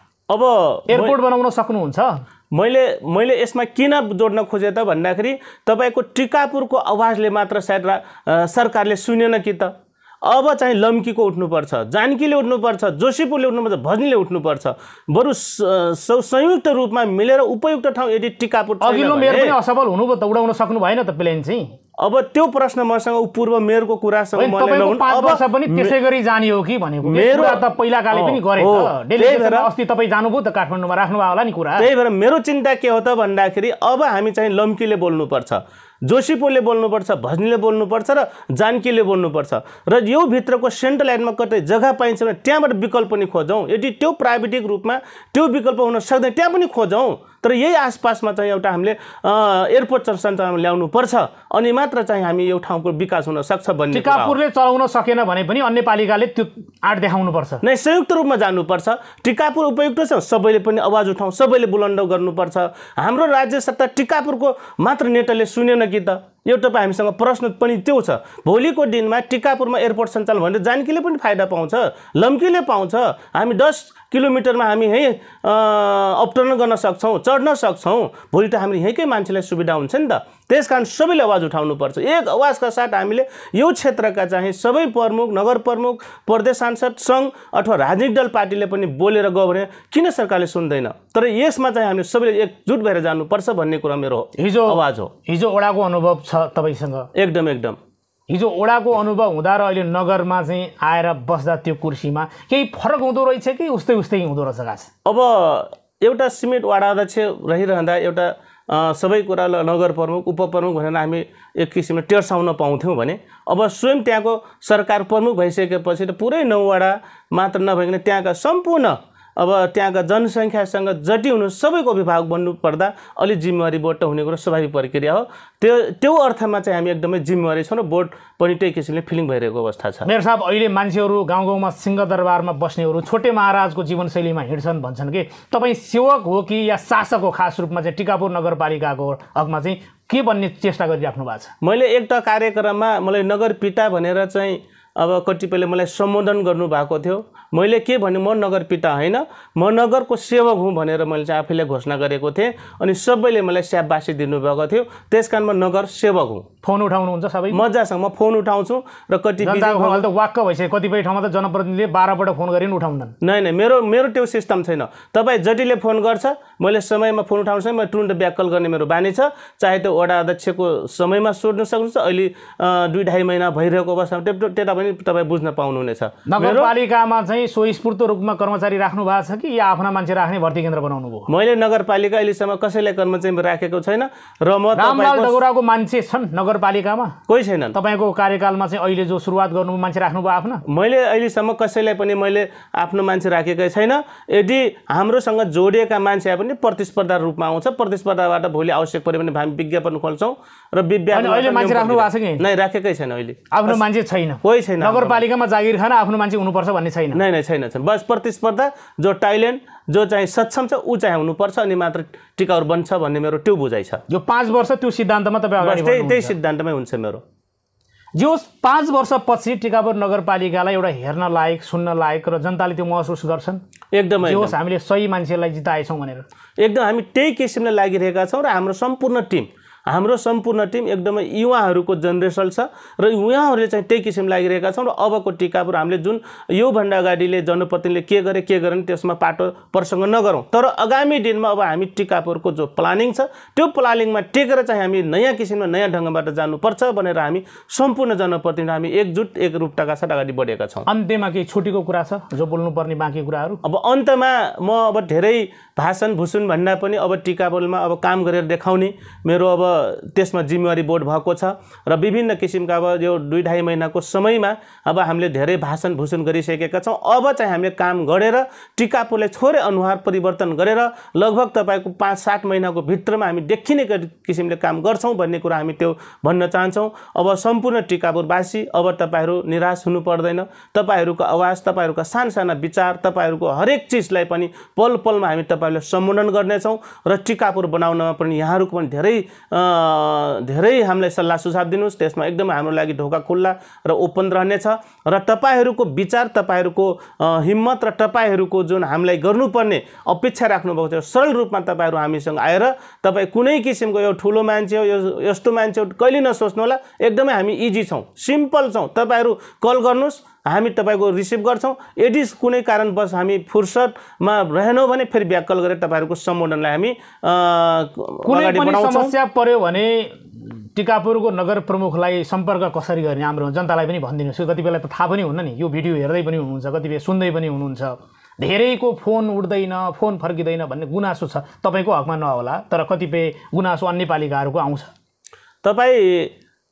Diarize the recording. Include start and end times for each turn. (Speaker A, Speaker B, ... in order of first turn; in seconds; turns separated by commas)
Speaker A: 0.3-1.2, Speaker B: 0.9-2.2, Speaker A: 2.5-19.5, Speaker B: 18.8-21.8, Speaker A: 22.0-25.9, Speaker B: 24.4-31.9, Speaker A: 27.0-29.7, Speaker A: 31.8-54.4, Speaker B: 53.9-57.6, Speaker A: 57.6-95.1, Speaker B: 94.4-97.1, Speaker A: 97.1-97.8, Speaker B: 98.3-104.9, Speaker A: 105.0-130.1, Speaker B: 130.1-141.5, Speaker A: 141.6-156.5, Speaker B: 156.6-157.6, Speaker A: 157.5-160.0, Speaker B: 159.4-163.2, Speaker A: 163.2-176.7, Speaker B: 176.3-181.3, Speaker A: 181.3-185.4, Speaker B: 184.8-187.2, Speaker A: 187.3-187.8, Speaker B: 187.7-190.6, Speaker A: 190.7-203.8, Speaker B: 201.1-202.4, Speaker B: 203.5-207.2, Speaker A: 204.4-205.2, Speaker A: 207.1-214.0, Speaker B: 214.1-216.3, Speaker A: 215.6-217.2, Speaker B: 218.2-223.6, Speaker A: 223.9-224.6, Speaker B: 224.2-226.3, Speaker A: 226.6-250.9, Speaker B: 250.9-253.6, Speaker A: 253.6-319.1, Speaker B: 318.2-334.9, Speaker A: 335.6-336.3